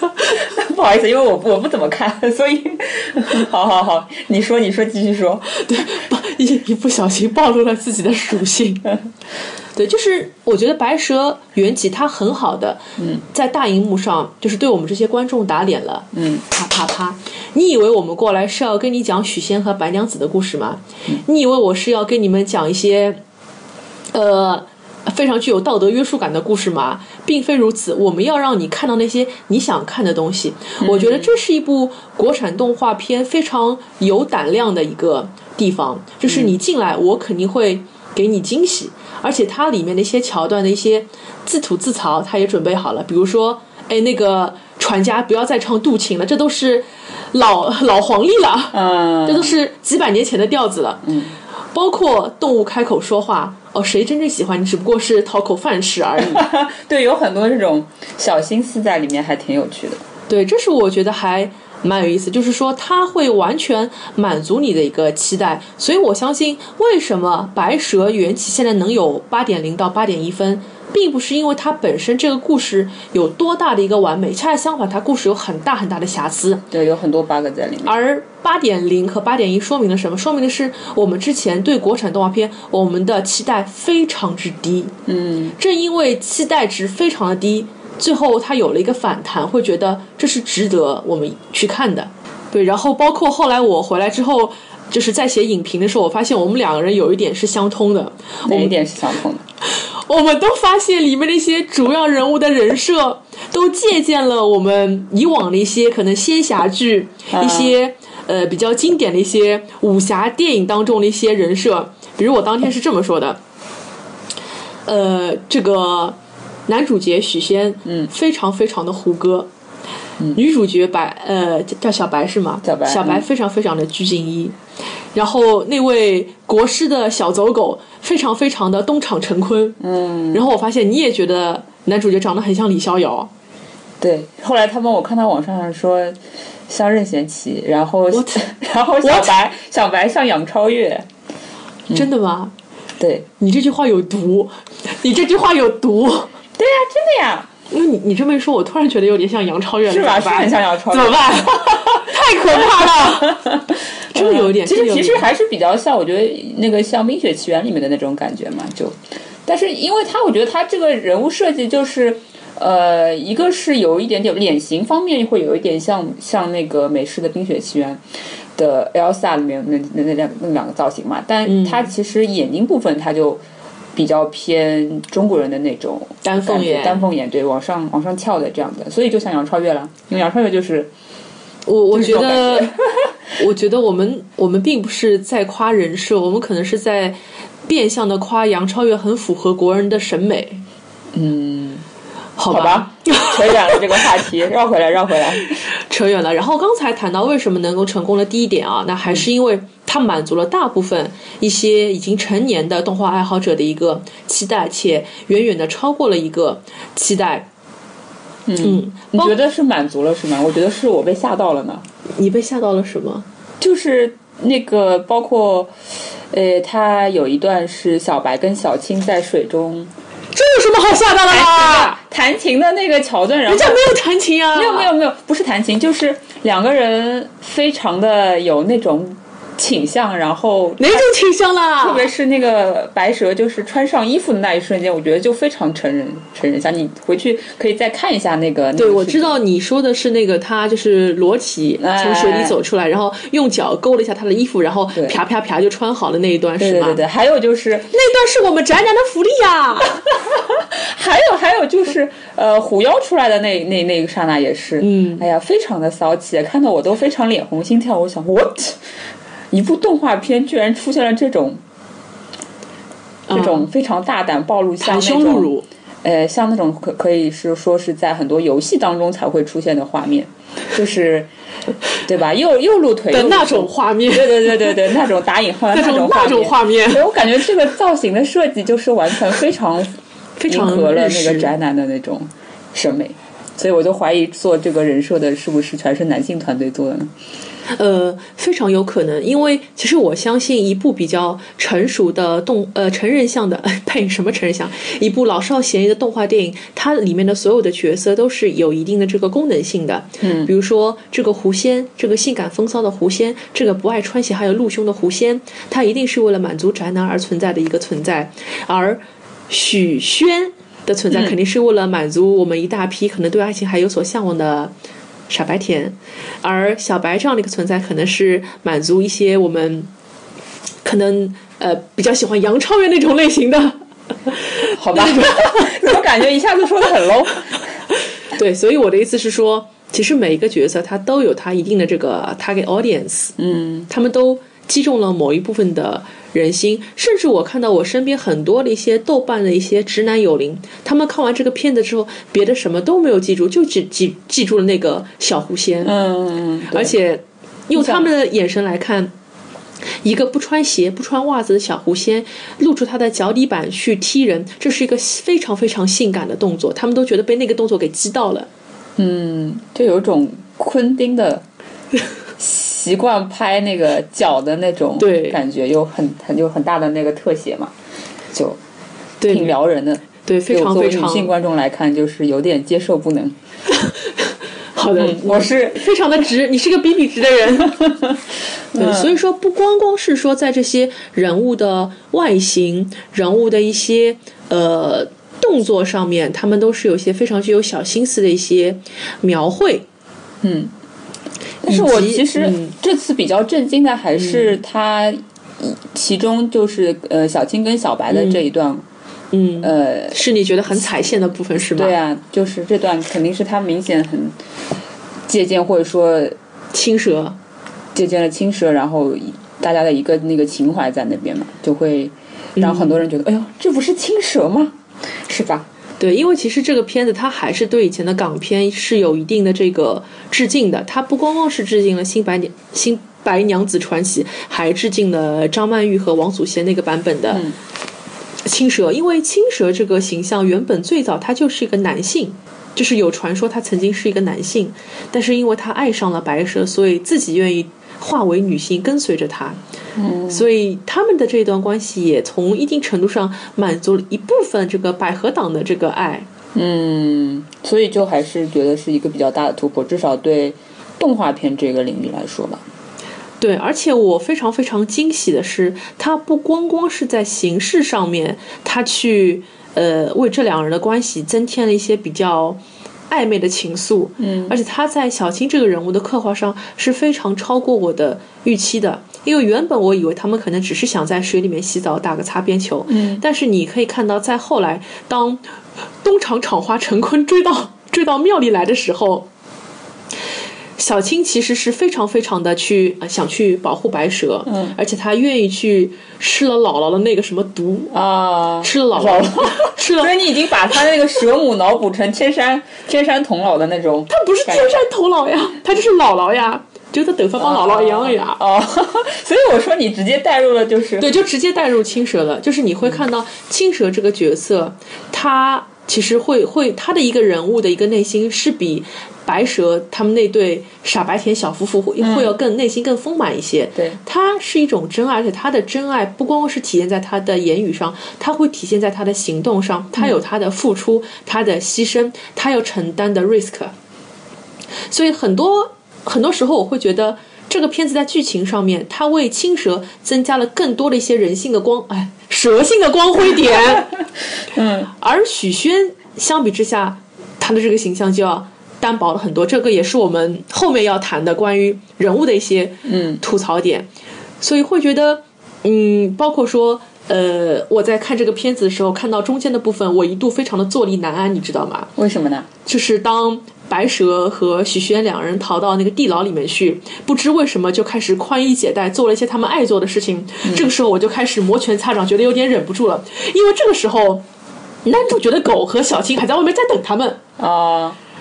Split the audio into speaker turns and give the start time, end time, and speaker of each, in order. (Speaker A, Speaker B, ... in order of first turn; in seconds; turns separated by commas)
Speaker A: 0.3-5.5, Speaker B: 5.5-8.9, Speaker B: 9.8-23.2, Speaker A: 16.1-16.4, Speaker B: 24.1-51.2, Speaker A: 30.8-31.3, Speaker A: 36.3-36.5, Speaker A: 48.7-49.5, Speaker A: 51.1-51.3, Speaker B: 51.7-56.4, Speaker A: 56.2-60.0, Speaker B: 60.3-76.7, Speaker A: 76.7-77.9, Speaker B: 77.8-85.0, Speaker A: 85.1-85.6, Speaker B: 85.6-98.7, Speaker A: 98.5-99.4, Speaker B: 99.8-113.4, Speaker A: 107.3-107.8, Speaker B: 114.9-119.5, Speaker B: 120.3-124.6, Speaker A: 122.6-123.2, Speaker B: 125.2-129.8, Speaker A: 129.8-130.4, Speaker B: 130.3-133.3, Speaker A: 134.0-136.2, Speaker A: 136.7-141.1, Speaker B: 138.1-138.4, Speaker B: 139.0-139.3, Speaker B: 141.9-142.5, Speaker A: 143.0-143.3, Speaker B: 143.4-146.3, Speaker A: 146.6-147.5, Speaker B: 147.7-153.4, Speaker A: 149.8-168.0, Speaker B: 154.1-155.3, Speaker A: 168.6-173.4, Speaker B: 171.5-171.9, Speaker A: 173.9-180.9, Speaker B: 176.2-177.1, Speaker B: 181.7-182.8, Speaker A: 181.9-182.9, Speaker B: 183.4-190.6, Speaker A: 191.1-191.8, Speaker B: 192.4-194.0, Speaker A: 192.5-195.5, Speaker B: 195.7-207.5, Speaker A: 208.5-211.8, Speaker B: 208.6-209.4, Speaker B: 212.2-213.3, Speaker A: 213.6-215.7, Speaker A: 216.3-219.9, Speaker B: 220.3-222.0, Speaker A: 221.3-223.9, Speaker B: 223.5-224.9, Speaker A: 224.5-231.1, Speaker B: 230.8-232.1, Speaker A: 231.8-239.4, Speaker B: 238.8-247.0, Speaker A: 241.8-242.6, Speaker A: 246.6-247.9, Speaker B: 247.9-250.0, Speaker A: 250.2-258.8, Speaker B: 254.8-255.3, Speaker A: 259.5-261.6, Speaker B: 263.3-263.7, Speaker A: 263.3-265.5, Speaker B: 264.8-265.7, Speaker A: 266.0-271.3, Speaker A: 272.0-279.9, Speaker B: 273.1-274.8, Speaker B: 275.7-277.0, Speaker B: 280.4-281.5, Speaker A: 280.5-287.1, Speaker B: 287.7-314.7, Speaker A: 300.2-300.5, Speaker B: 315.3-319.9, Speaker B: 320.8-325.8, Speaker A: 324.7-327.6, Speaker B: 328.3-333.4, Speaker A: 333.4-333.9, Speaker B: 333.9-345.9, Speaker A: 345.8-346.9, Speaker B: 346.7-349.1, Speaker A: 347.7-348.1, Speaker B: 350.0-358.5, Speaker A: 359.0-361.4, Speaker A: 362.4-367.7, Speaker B: 365.0-365.4, Speaker A: 368.3-368.6, Speaker B: 369.2-369.5, Speaker A: 369.3-373.4, Speaker B: 370.2-371.3, Speaker B: 373.7-377.9, Speaker A: 375.0-375.9, Speaker A: 378.7-379.1, Speaker B: 378.8-389.9, Speaker A: 390.4-390.7, Speaker A: 391.6-398.8, Speaker B: 391.7-392.7, Speaker B: 394.2-394.5, Speaker B: 398.1-398.4, Speaker B: 399.3-401.9, Speaker A: 399.6-400.2, Speaker A: 401.8-404.4, Speaker A: 405.3-406.4, Speaker B: 406.7-407.4, Speaker A: 407.9-414.8, Speaker B: 412.6-413.0, Speaker A: 415.3-415.7, Speaker B: 416.0-427.5, Speaker A: 427.3-427.6, Speaker B: 428.4-439.6, Speaker A: 440.0-440.5, Speaker B: 440.3-446.3, Speaker A: 446.6-452.6, Speaker B: 453.4-475.4, Speaker A: 464.2-464.6, Speaker A: 472.9-473.2, Speaker B: 476.0-479.3, Speaker B: 480.8-487.9, Speaker A: 487.9-494.7, Speaker B: 488.6-490.2, Speaker B: 494.1-498.4, Speaker A: 497.4-501.1, Speaker B: 501.0-523.7, Speaker A: 512.0-512.3, Speaker B: 524.9-533.9, Speaker A: 534.5-534.9, Speaker B: 534.9-543.9, Speaker A: 542.9-543.2, Speaker B: 544.4-551.9, Speaker A: 552.0-552.5, Speaker B: 552.7-564.2, Speaker A: 560.5-560.7, Speaker B: 564.9-567.2, Speaker A: 567.4-568.0